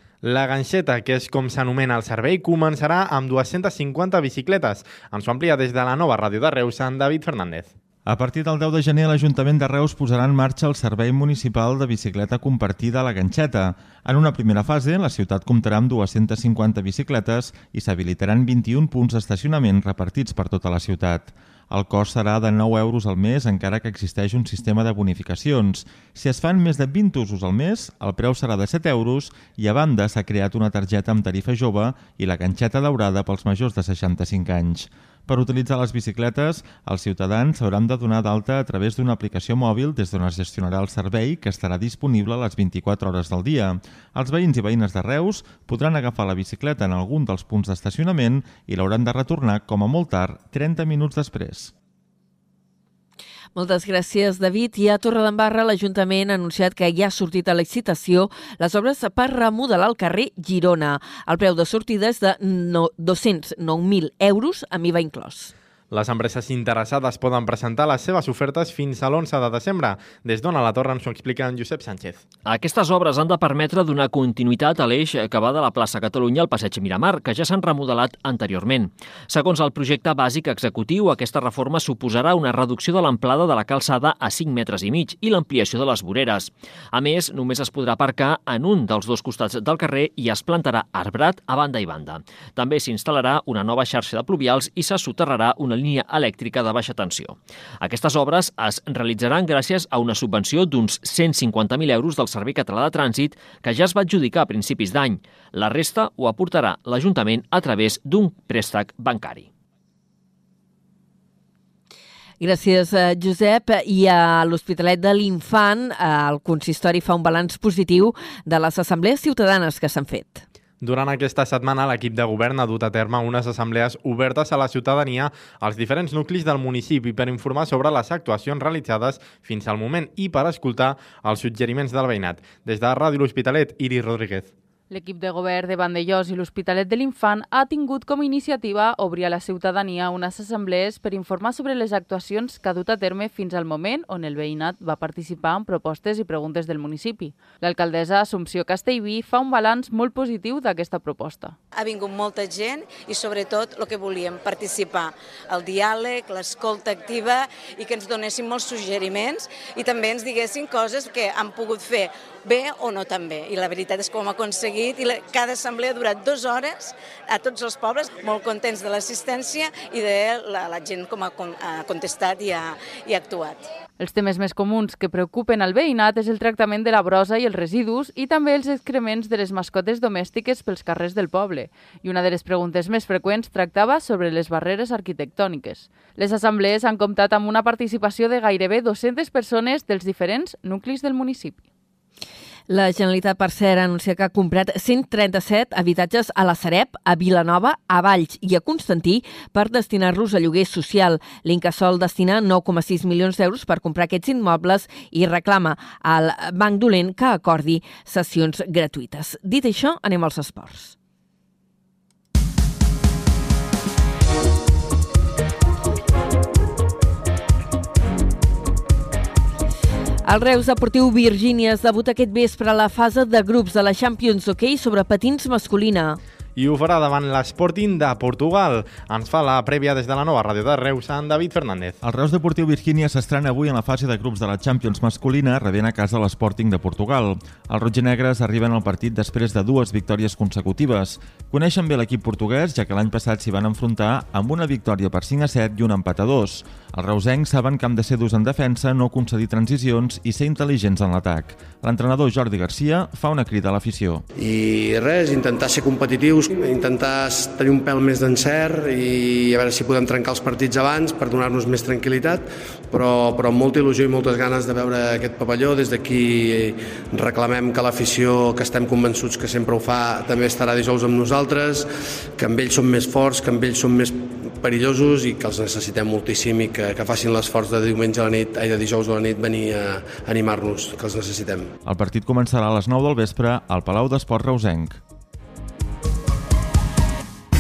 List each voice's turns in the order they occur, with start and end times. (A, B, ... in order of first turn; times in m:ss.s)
0:00.2-0:07.7 A
0:08.1-0:51.7 B
0:53.6-1:05.5 C
1:05.9-1:12.2 A
1:12.5-1:49.5 D
1:52.4-2:00.4 C
2:00.8-2:14.5 A
2:14.9-2:31.6 E
2:31.8-2:53.7 F
2:54.0-3:11.6 E
3:12.7-3:31.0 C
3:40.3-3:46.2 C
3:46.6-3:52.0 A
3:52.0-4:14.2 B
4:14.4-4:41.7 G
4:41.8-4:45.0 B